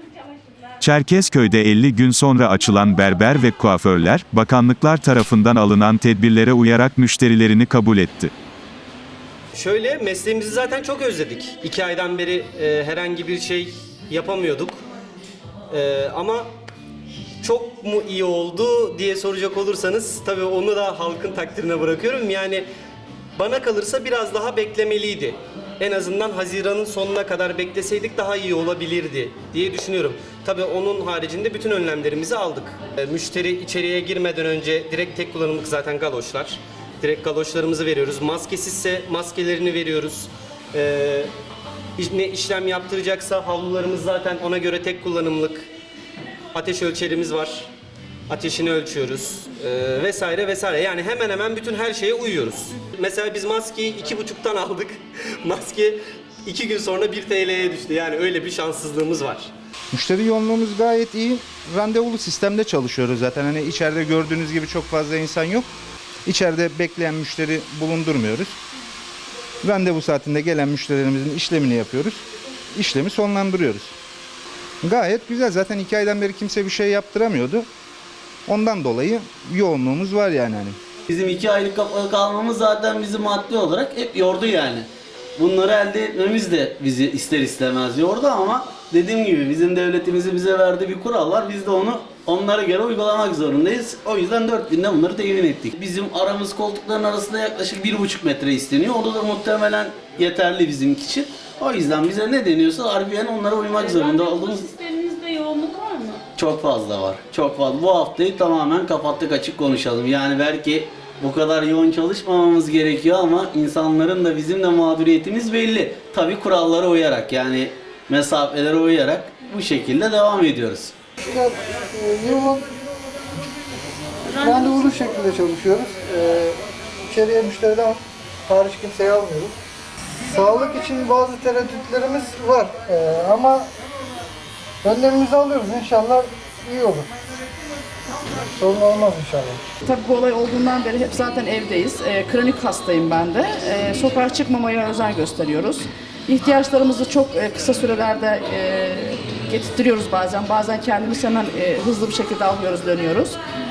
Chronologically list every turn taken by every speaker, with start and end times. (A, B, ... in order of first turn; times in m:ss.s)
0:00.8-0:08.3 A
0:09.6-0:14.7 B
0:15.7-0:16.4 B
0:17.4-0:22.6 B
0:23.4-0:41.3 B
0:42.0-0:45.6 B
0:46.5-0:47.7 B
0:48.3-0:54.9 B
0:55.4-0:55.9 B
0:56.4-0:59.5 B
0:59.9-1:05.7 C
1:06.2-1:08.6 C
1:09.6-1:13.9 C
1:14.8-1:17.7 C
1:18.4-1:20.8 C
1:21.1-1:44.7 D
1:43.8-1:46.2 E
1:46.4-2:00.9 D
2:01.2-2:02.7 F
2:04.3-2:05.0 E
2:04.4-2:06.6 F
2:07.1-2:09.5 F
2:10.2-2:13.7 F
2:14.8-2:17.1 F
2:18.5-2:19.6 F
2:19.8-2:33.4 G